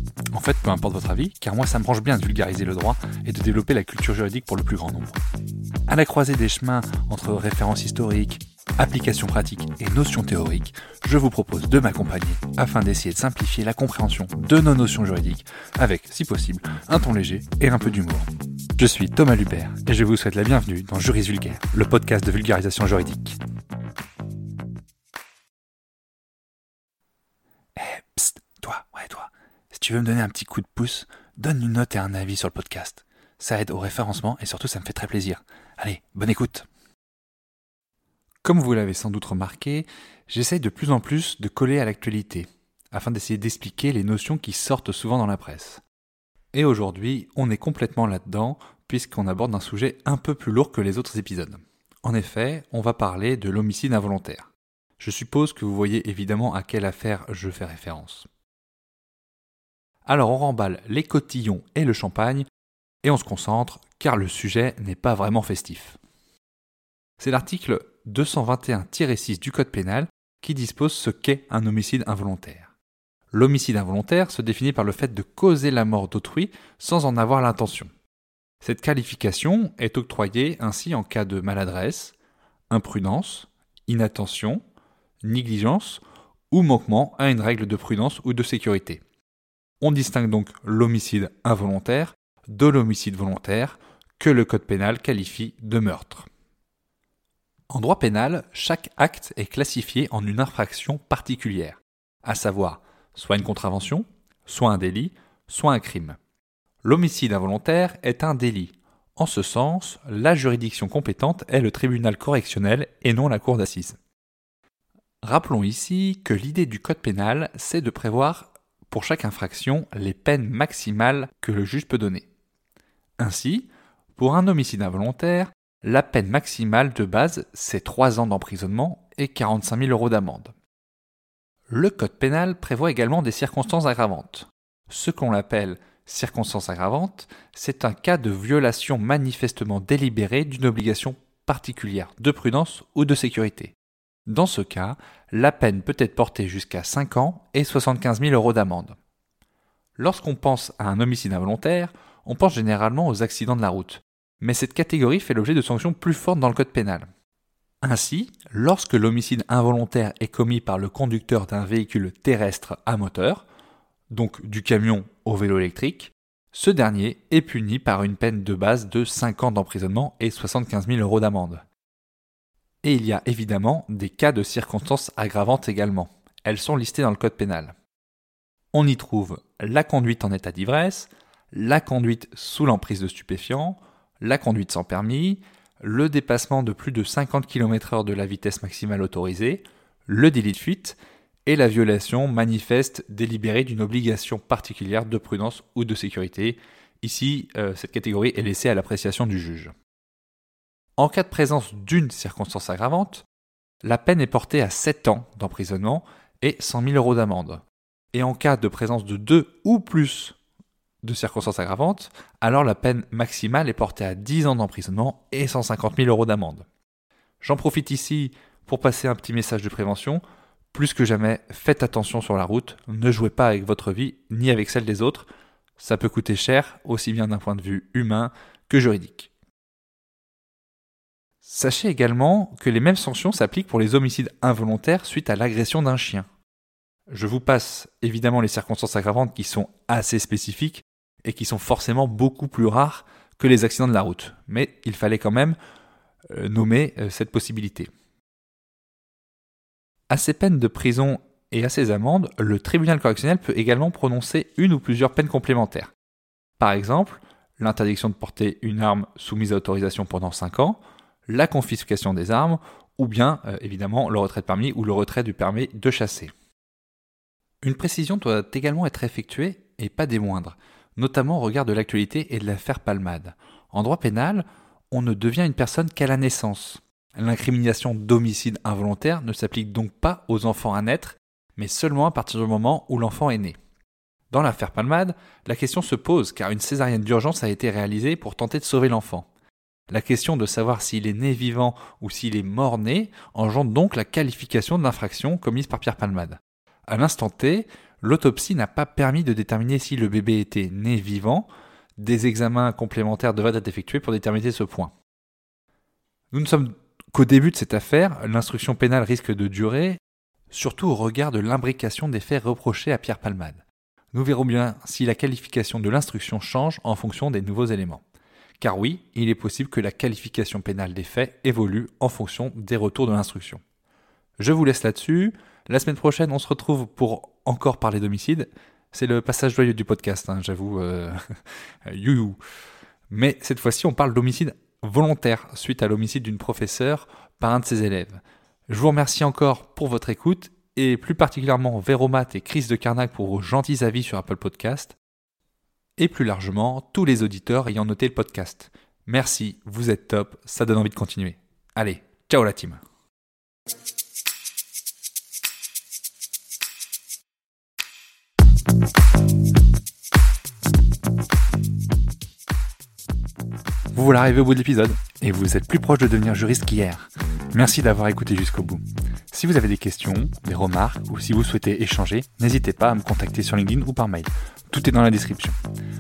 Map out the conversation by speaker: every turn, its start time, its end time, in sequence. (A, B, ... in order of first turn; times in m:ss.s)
0:00.3-0:05.2 A
0:05.9-0:23.4 A
0:27.8-0:36.7 A
0:38.4-0:45.8 A
0:46.5-0:58.3 A
1:00.1-1:02.5 A
1:03.0-1:06.0 A
1:07.2-1:12.7 A
1:13.3-1:17.9 A
1:18.6-1:22.2 A
1:22.7-1:24.6 A
1:25.2-1:29.0 A
1:29.8-1:36.3 A
1:37.7-1:46.2 A
1:46.8-1:54.0 A
1:55.2-2:02.3 A
2:03.2-2:10.5 A
2:11.7-2:23.8 A
2:24.3-2:29.0 A
2:30.0-2:37.1 A
2:37.8-2:43.4 A
2:44.1-2:51.6 A
2:52.8-2:57.8 A
2:58.7-3:19.7 A
3:21.0-3:23.3 A
3:23.8-3:30.4 A
3:31.0-3:36.6 A
3:37.4-3:40.2 A
3:40.7-3:49.3 A
3:51.4-3:56.3 A
3:57.1-4:05.6 A
4:06.3-4:07.9 A
4:10.1-4:15.9 A
4:16.6-4:26.3 A
4:27.6-4:43.6 A
4:44.3-4:49.3 A
4:49.9-5:01.5 A
5:02.0-5:04.9 A
5:06.3-5:10.0 A
5:10.5-5:18.0 A
5:18.6-5:23.6 A
5:24.4-5:31.2 A
5:31.9-5:32.4 A
5:33.1-5:45.0 A
5:46.0-5:52.8 A
6:03.9-6:15.6 A